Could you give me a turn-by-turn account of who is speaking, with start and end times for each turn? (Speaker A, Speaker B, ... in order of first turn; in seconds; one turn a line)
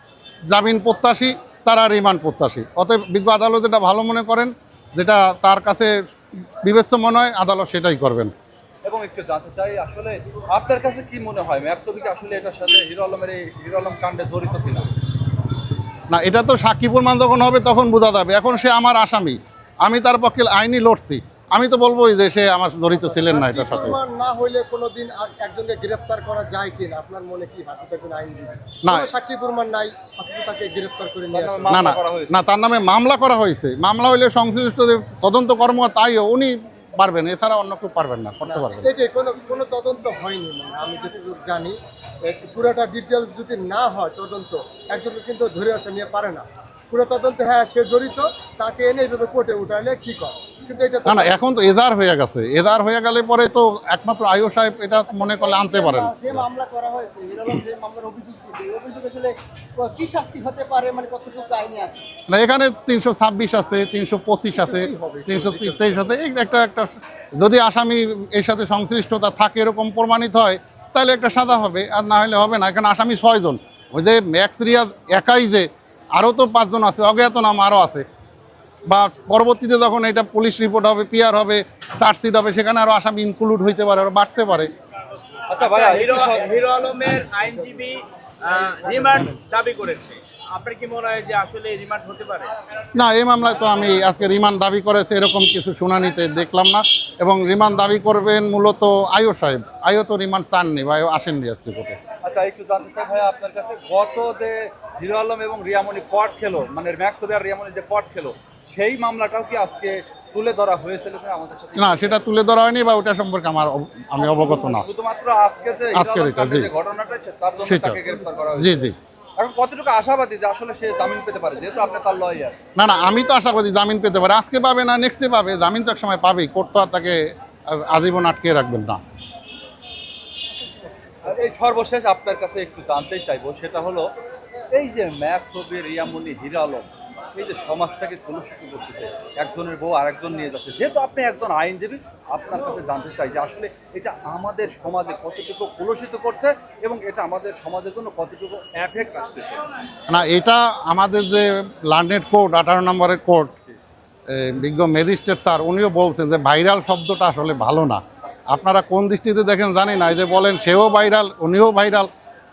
Speaker A: 0.5-5.9
Speaker A: 6.6-8.3
Speaker B: 8.8-14.9
Speaker A: 16.1-24.0
Speaker C: 23.0-31.8
Speaker A: 28.8-29.1
Speaker B: 31.3-32.4
Speaker A: 31.7-38.9
Speaker C: 38.5-51.4
Speaker A: 51.0-56.5
Speaker D: 55.2-62.0
Speaker A: 62.3-78.1
Speaker C: 64.5-66.1
Speaker A: 78.9-84.7
Speaker B: 85.5-86.6
Speaker E: 85.5-92.5
Speaker A: 93.0-102.0
Speaker B: 102.2-112.2
Speaker A: 111.8-114.9
Speaker B: 114.2-122.6
Speaker A: 115.9-116.7
Speaker A: 117.6-119.0
Speaker A: 122.8-129.0
Speaker B: 131.2-134.1
Speaker B: 134.7-149.7
Speaker A: 150.1-153.5
Speaker A: 154.3-162.1